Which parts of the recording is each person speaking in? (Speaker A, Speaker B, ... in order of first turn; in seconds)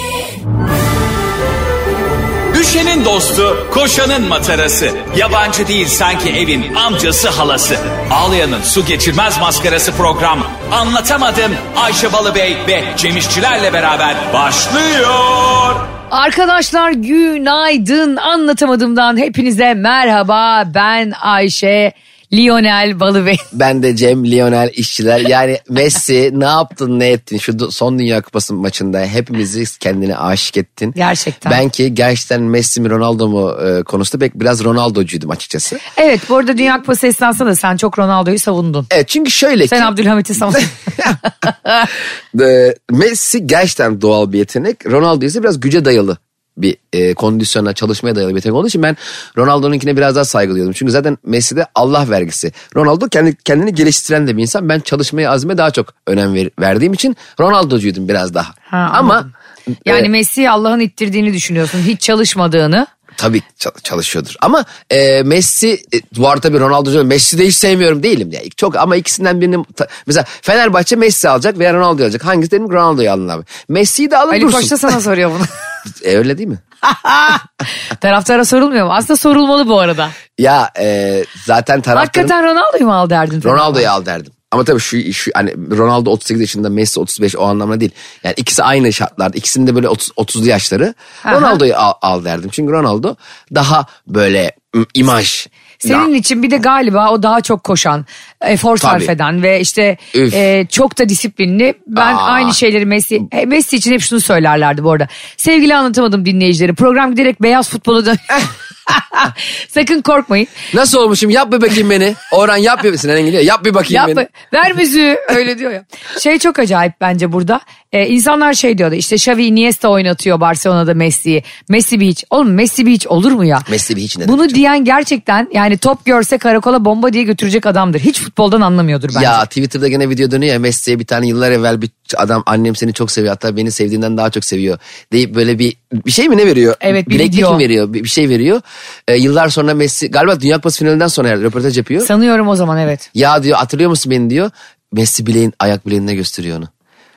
Speaker A: 2.5-15.9
Speaker B: 16.1-23.5, 31.0-31.6, 36.0-38.9, 39.7-40.7, 41.5-41.9, 58.7-59.3, 59.9-62.9, 74.3-75.5, 76.9-80.2, 81.9-83.9, 91.2-91.6, 95.8-110.6, 113.9-123.7, 124.2-129.4, 136.8-137.6, 142.0-143.1
Speaker C: 23.5-35.8, 38.9-39.9, 42.3-59.3, 63.2-75.0, 75.9-76.6, 80.4-82.3, 83.4-96.1, 98.8-99.1, 100.1-100.4, 102.0-102.6, 110.7-114.2, 123.7-124.6, 129.1-142.1, 143.2-146.7